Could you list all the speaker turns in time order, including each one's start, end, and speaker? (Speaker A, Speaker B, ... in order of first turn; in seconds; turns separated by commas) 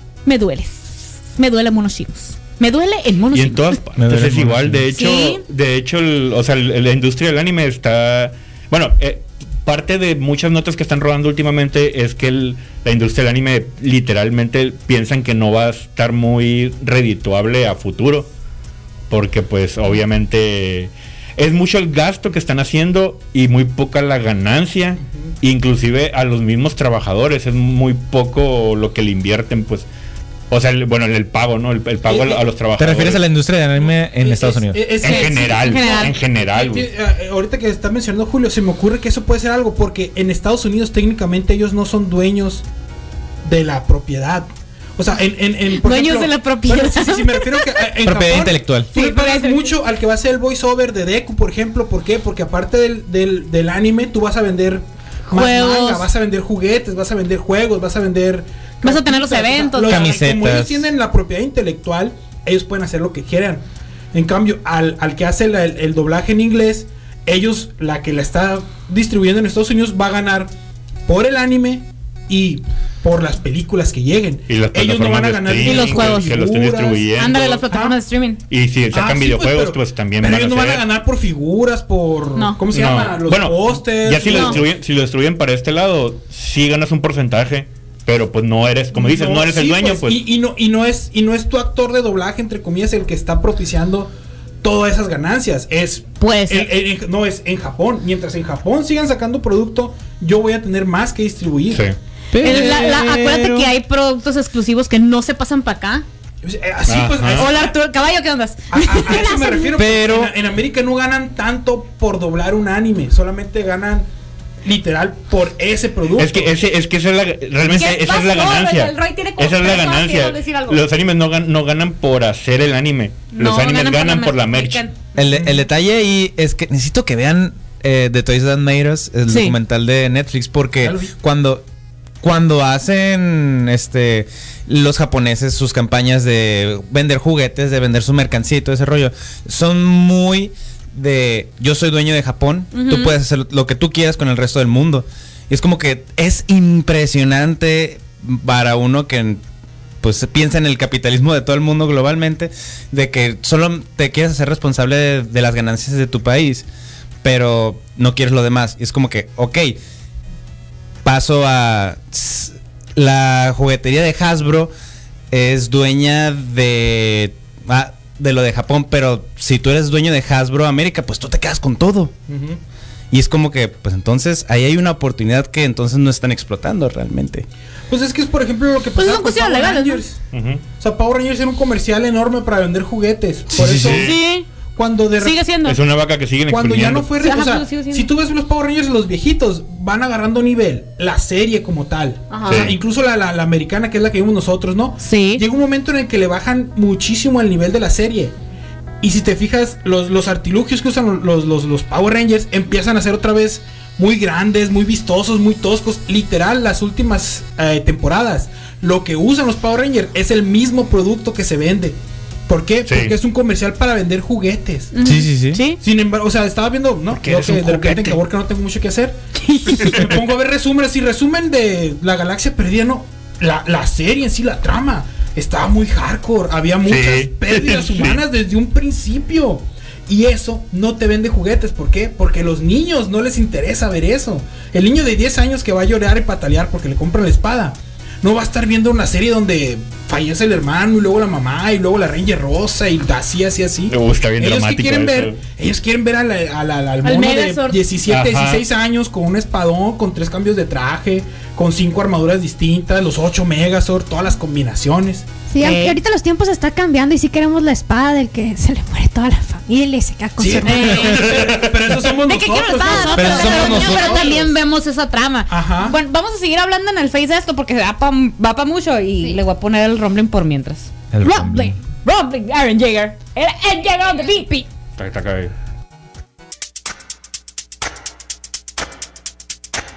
Speaker A: 0.2-3.8, Speaker B: 3.3-18.3, Speaker C: 4.0-4.8, Speaker A: 4.9-5.4, Speaker B: 19.1-29.9, Speaker B: 30.5-33.2, Speaker D: 32.1-32.4, Speaker C: 32.8-34.9, Speaker D: 33.9-42.7, Speaker B: 35.0-36.9, Speaker A: 35.0-36.2, Speaker D: 43.4-70.5, Speaker A: 45.8-47.7, Speaker C: 48.0-48.9, Speaker A: 48.9-49.7, Speaker A: 55.3-56.1, Speaker A: 58.8-60.1, Speaker C: 59.8-60.9, Speaker D: 71.1-78.0, Speaker B: 74.5-77.6, Speaker A: 75.6-76.4, Speaker A: 77.2-78.4, Speaker B: 78.5-80.8, Speaker D: 78.9-84.7, Speaker A: 82.3-82.6, Speaker B: 82.7-90.2, Speaker A: 84.2-84.6, Speaker D: 88.9-101.9, Speaker A: 96.2-96.7, Speaker C: 102.3-103.7, Speaker A: 102.4-106.0, Speaker D: 102.5-102.8, Speaker D: 106.4-107.7, Speaker B: 106.9-107.5, Speaker A: 107.3-109.7, Speaker D: 108.7-114.1, Speaker C: 109.8-110.3, Speaker D: 114.6-116.5, Speaker B: 116.2-124.8, Speaker A: 117.7-120.8, Speaker A: 123.3-125.1, Speaker C: 125.2-131.6, Speaker D: 125.3-125.6, Speaker A: 129.3-129.6, Speaker D: 130.8-131.1, Speaker C: 132.2-149.4, Speaker A: 142.7-143.2, Speaker C: 150.0-156.7, Speaker C: 157.2-159.8, Speaker C: 161.0-164.7, Speaker C: 165.3-172.1, Speaker D: 172.3-172.6, Speaker C: 173.1-177.5, Speaker D: 177.9-180.2, Speaker A: 179.0-180.0, Speaker B: 180.3-180.6, Speaker D: 180.8-184.2, Speaker C: 183.6-184.1, Speaker B: 183.6-184.2, Speaker A: 183.9-184.5, Speaker D: 184.8-185.4, Speaker A: 185.2-185.8, Speaker B: 185.6-187.1, Speaker D: 186.5-198.3, Speaker A: 187.2-188.1, Speaker A: 192.3-192.7, Speaker B: 192.5-192.8, Speaker A: 195.0-195.4, Speaker D: 199.0-212.0, Speaker D: 212.5-214.9, Speaker B: 212.9-213.2, Speaker A: 214.9-215.8, Speaker C: 215.0-215.6, Speaker D: 215.8-219.2, Speaker B: 217.1-218.2, Speaker A: 219.4-220.0, Speaker D: 219.7-255.3, Speaker B: 219.8-220.2, Speaker B: 226.8-228.2, Speaker B: 243.9-245.4, Speaker A: 247.0-247.8, Speaker B: 248.1-248.6, Speaker E: 255.5-261.1, Speaker A: 255.6-256.0, Speaker D: 260.4-264.5, Speaker A: 260.6-261.6, Speaker B: 261.0-261.8, Speaker A: 262.2-274.7, Speaker E: 262.8-264.2, Speaker C: 263.1-264.4, Speaker D: 265.5-266.0, Speaker C: 271.1-271.8, Speaker B: 275.0-275.5